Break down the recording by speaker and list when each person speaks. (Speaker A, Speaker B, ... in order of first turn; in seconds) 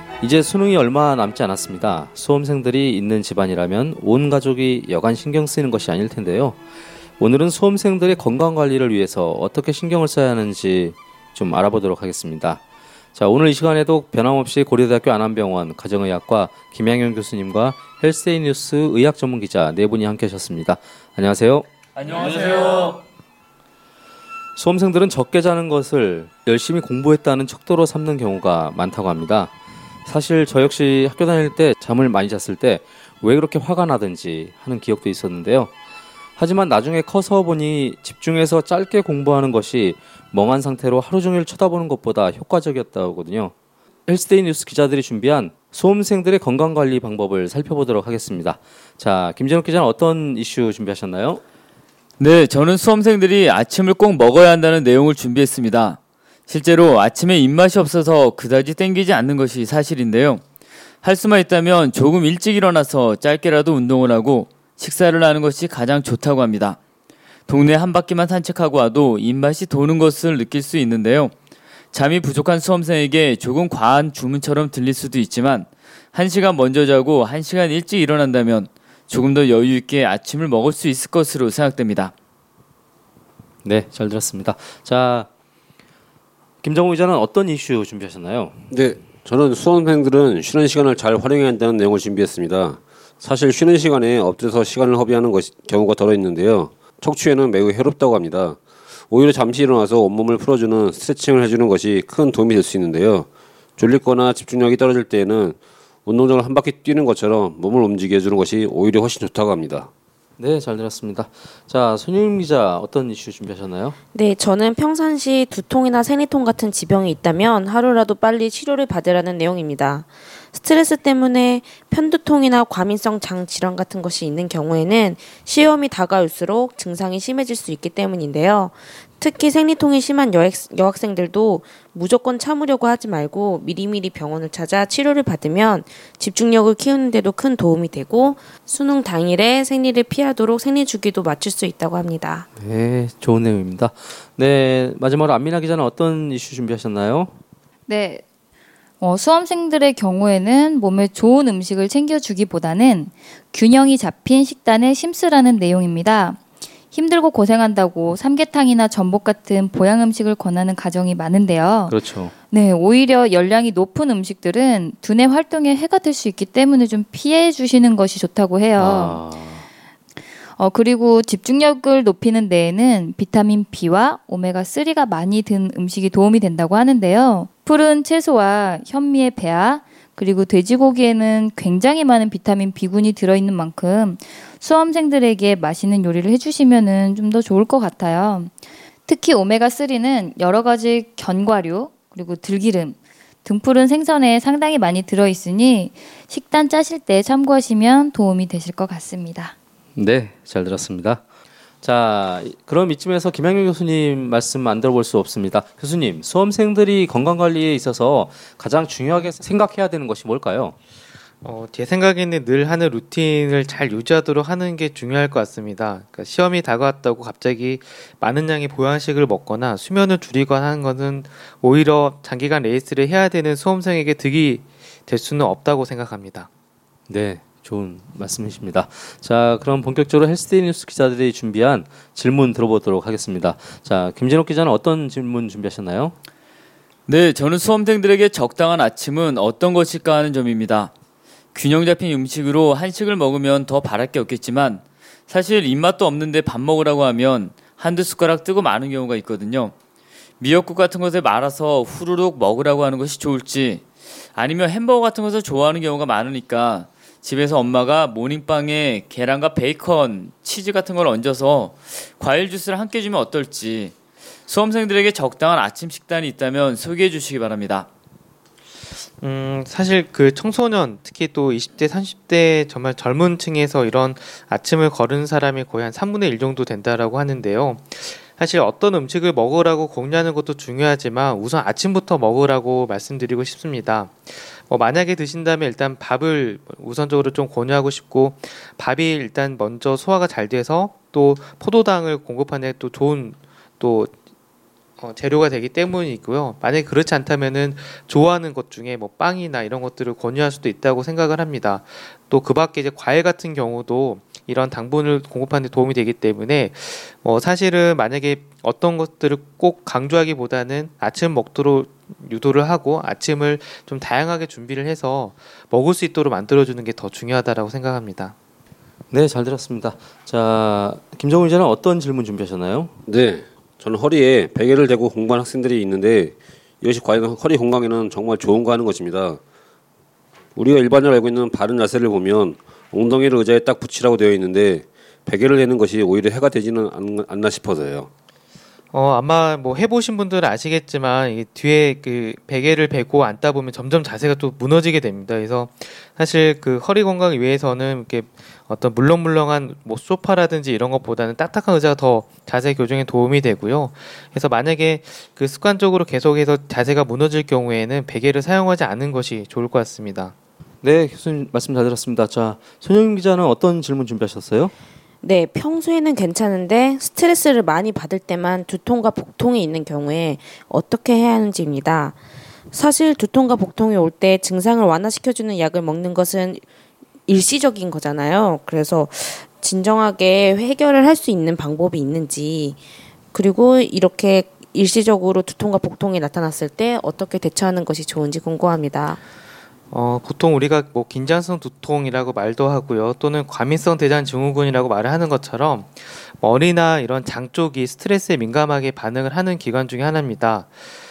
Speaker A: 0.2-6.6, 7.2-12.6, 13.1-21.7, 24.6-29.5, 30.1-35.7, 36.4-43.5, 44.1-51.4, 83.6-85.3, 86.6-88.6, 110.4-114.0, 142.6-147.3, 161.9-162.3, 168.8-169.7, 199.9-201.2, 201.8-210.8, 227.1-236.1, 319.1-322.9, 360.8-364.7
Speaker B: 52.2-60.4, 61.0-66.8, 67.5-71.3, 71.9-82.1, 237.1-240.9, 241.5-249.7, 250.4-263.9, 264.5-267.9
Speaker C: 88.7-98.6, 99.1-109.9, 323.1-329.4, 330.6-338.1
Speaker D: 114.1-142.5, 365.2-372.2, 372.7-376.6, 377.3-382.8, 383.3-389.2
Speaker E: 147.9-148.2, 149.0-156.4, 156.9-162.0, 162.5-169.2, 170.6-188.5, 189.1-199.5
Speaker F: 211.4-226.5, 269.2-294.1, 295.0-318.3, 338.9-360.3, 389.9-400.9